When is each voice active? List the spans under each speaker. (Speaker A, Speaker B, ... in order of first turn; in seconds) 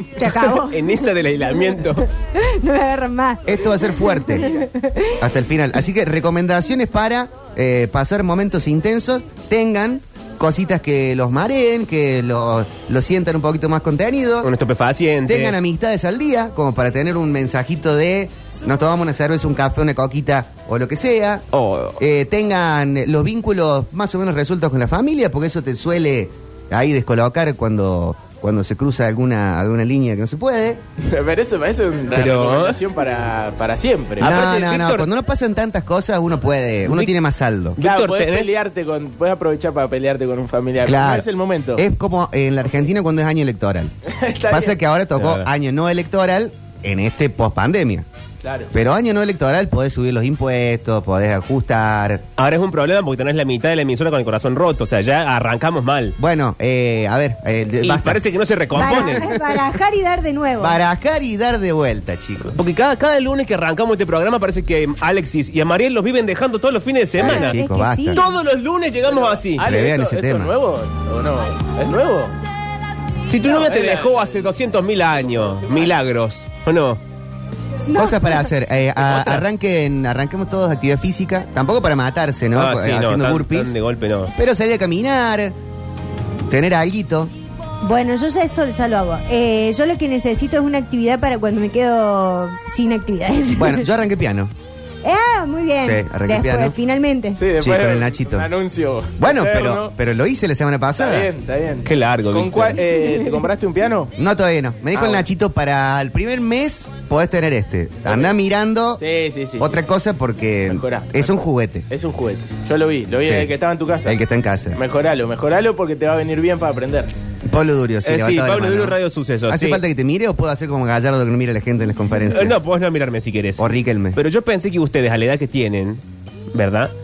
Speaker A: 0.2-1.1, 1.6-5.2, 58.8-60.8, 67.2-68.2, 77.9-78.5, 87.8-93.9, 95.0-97.4
Speaker B: 0.6-2.0, 14.4-15.6, 21.5-22.0, 32.1-32.8, 34.2-35.1, 36.9-37.1, 37.8-38.6, 45.2-45.5, 52.4-56.2, 57.8-59.3, 62.5-67.6, 68.1-69.7, 73.3-77.0, 79.0-79.5, 82.5-84.3, 101.9-102.8, 118.0-119.8, 122.3-126.0, 126.5-126.9
Speaker C: 3.5-4.5, 5.2-14.5, 15.3-21.4, 22.0-30.8, 34.2-37.8, 40.8-43.9, 44.5-48.1, 48.7-52.2, 56.2-58.2, 58.8-59.4, 60.6-62.6, 67.2-68.3, 69.6-70.5, 77.9-83.8, 84.3-85.5, 86.5-87.3, 93.6-94.5, 95.8-96.8, 97.6-98.5, 99.2-101.3, 104.2-109.0, 109.6-111.9, 113.2-114.8, 117.5-122.6, 123.6-124.2
Speaker D: 31.0-34.4, 37.8-41.8, 44.1-44.8, 48.4-48.7, 69.0-72.3, 73.4-74.5, 75.2-76.0, 97.3-99.9, 101.0-104.1, 104.9-105.2, 108.0-108.3, 109.0-109.8, 110.7-114.2, 114.7-117.2